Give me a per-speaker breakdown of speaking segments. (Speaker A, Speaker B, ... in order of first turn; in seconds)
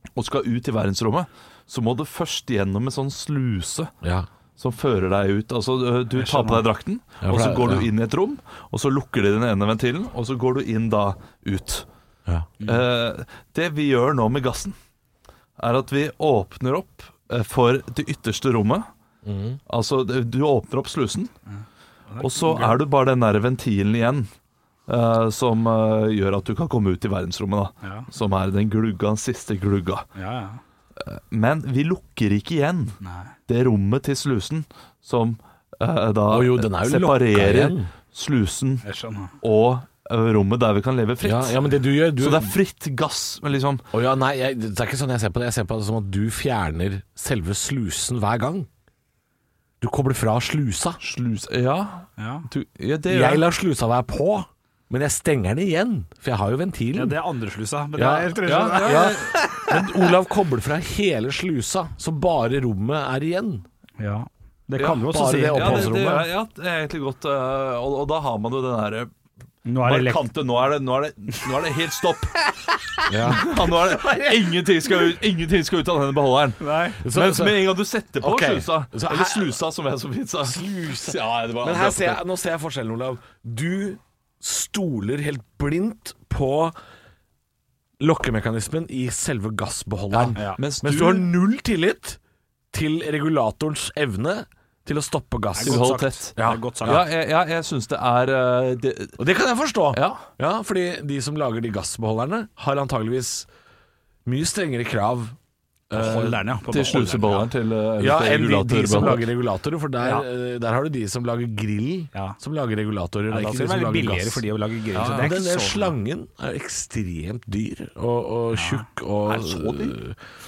Speaker A: 0.2-3.9, 4.6-11.9, 12.6-14.8, 15.6-18.9, 19.7-21.3, 22.2-24.3, 24.9-30.1, 31.0-38.9, 39.4-41.6, 42.2-43.9, 51.0-53.4, 58.5-59.5, 64.8-69.1, 69.8-72.4, 73.2-82.2, 90.1-91.3, 95.6-99.2, 99.9-100.2, 106.7-109.3, 115.0-115.3, 119.3-120.0
Speaker B: 4.0-4.3, 7.2-7.9, 19.2-19.6, 36.3-37.9, 41.2-42.5, 43.9-48.7, 49.8-51.0, 53.1-57.2, 58.0-63.7, 65.1-66.3, 73.1-73.5, 77.0-79.6, 80.4-86.8, 88.0-92.2, 92.7-97.0, 99.2-103.5, 104.3-105.4, 105.9-106.4, 108.0-114.4, 115.0-120.2
Speaker C: 6.2-6.6, 12.6-12.9, 22.1-22.8, 27.8-28.1, 30.1-30.6, 33.0-33.3, 38.9-39.4, 52.2-52.5, 56.9-60.1, 64.0-66.0, 69.7-70.3, 76.6-77.0, 90.3-90.6, 95.6-97.0, 105.9-107.5, 113.3-115.9, 118.5-118.8